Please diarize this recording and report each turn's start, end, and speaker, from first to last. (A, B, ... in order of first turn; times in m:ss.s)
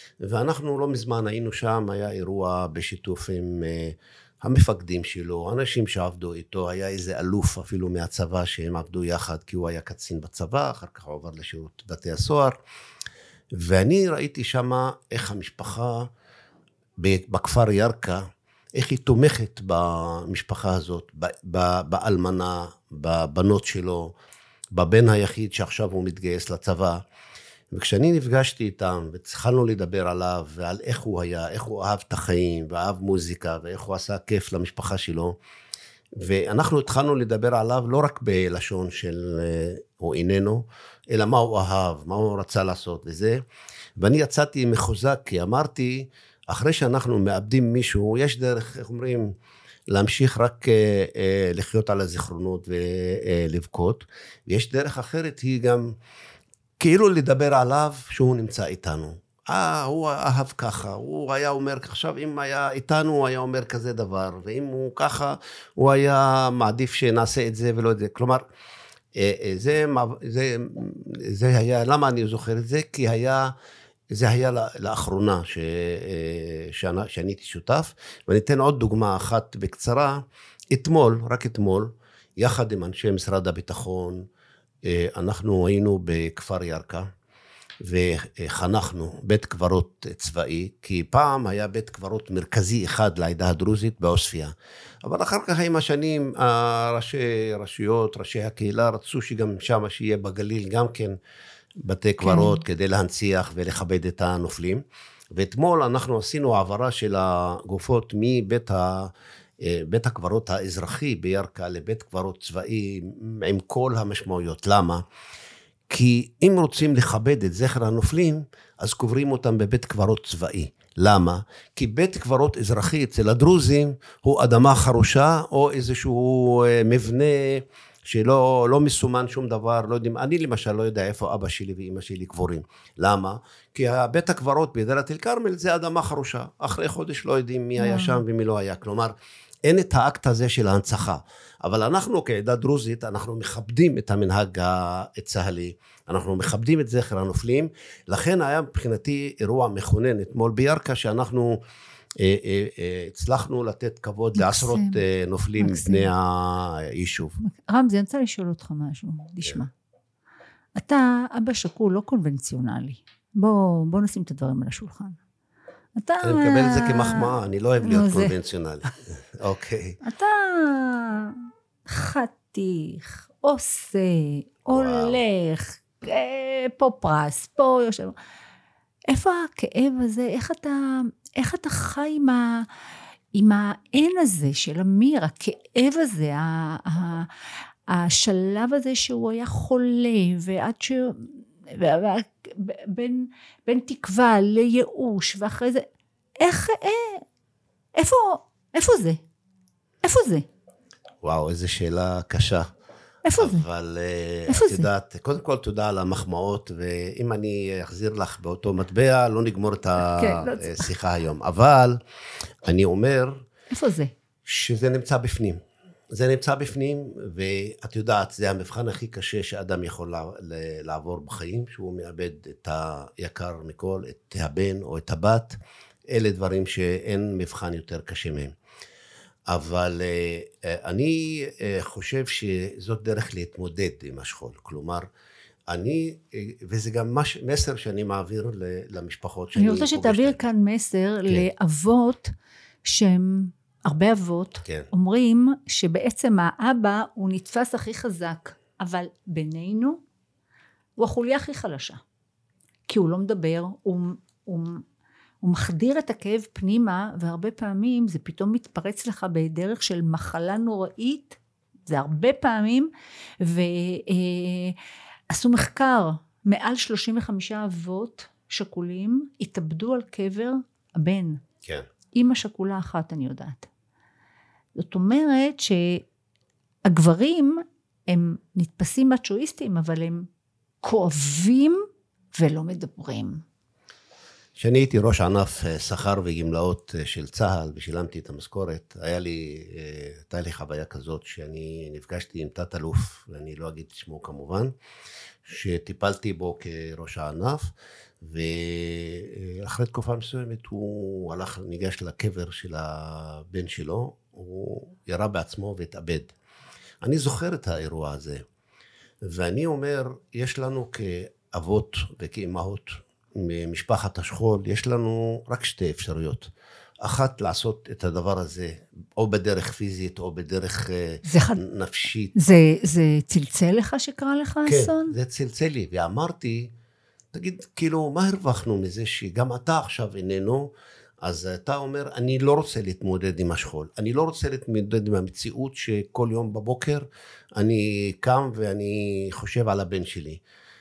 0:00.2-0:12.6 A
0:13.5-0:16.1 A
0:17.0-0:18.2 A
0:18.8-0:24.2 A
0:24.7-0:27.0 A
0:27.7-0:35.4 A
0:36.2-0:43.4 A
0:44.0-0:49.3 A
0:49.9-0:56.0 A
0:56.8-1:08.4 A
1:09.2-1:13.5 A
1:14.1-1:24.2 A
1:24.8-1:27.1 A
1:27.8-1:34.5 A
1:35.0-1:41.2 A
1:41.8-1:55.0 A
1:42.2-1:42.6 B
1:55.9-2:19.1 A
2:17.8-2:18.2 B
2:19.7-2:31.6 A
2:32.2-2:37.4 A
2:34.4-2:35.0 B
2:35.6-2:36.1 B
2:37.4-2:39.7 B
2:40.8-2:45.2 B
2:46.0-2:48.4 B
2:46.2-2:50.0 A
2:50.0-2:58.2 B
2:54.7-2:55.2 A
2:59.1-3:02.7 B
3:03.3-3:07.3 B
3:07.9-3:15.9 B
3:16.4-3:17.2 B
3:18.0-3:19.2 B
3:20.0-3:20.4 B
3:21.2-3:22.7 A
3:23.3-3:23.6 B
3:23.4-3:32.0 A
3:24.5-3:24.9 B
3:30.0-3:30.9 B
3:32.6-3:33.4 A
3:33.7-3:34.1 B
3:34.4-3:35.6 A
3:36.1-3:48.5 A
3:49.5-3:55.1 A
3:55.7-4:00.4 A
3:59.6-4:02.3 B
4:02.8-4:10.0 B
4:11.0-4:12.0 B
4:12.9-4:14.8 B
4:15.4-4:22.9 B
4:23.4-4:24.8 B
4:25.3-4:31.4 B
4:32.1-4:33.7 B
4:34.8-4:36.0 B
4:36.9-4:40.3 B
4:40.8-4:43.4 B
4:44.6-4:54.7 A
4:55.4-5:06.4 A
5:07.0-5:08.4 A
5:09.2-5:16.5 A
5:17.0-5:22.3 A
5:21.2-5:21.6 B
5:22.4-5:25.2 B
5:24.7-5:26.7 A
5:27.3-5:40.4 A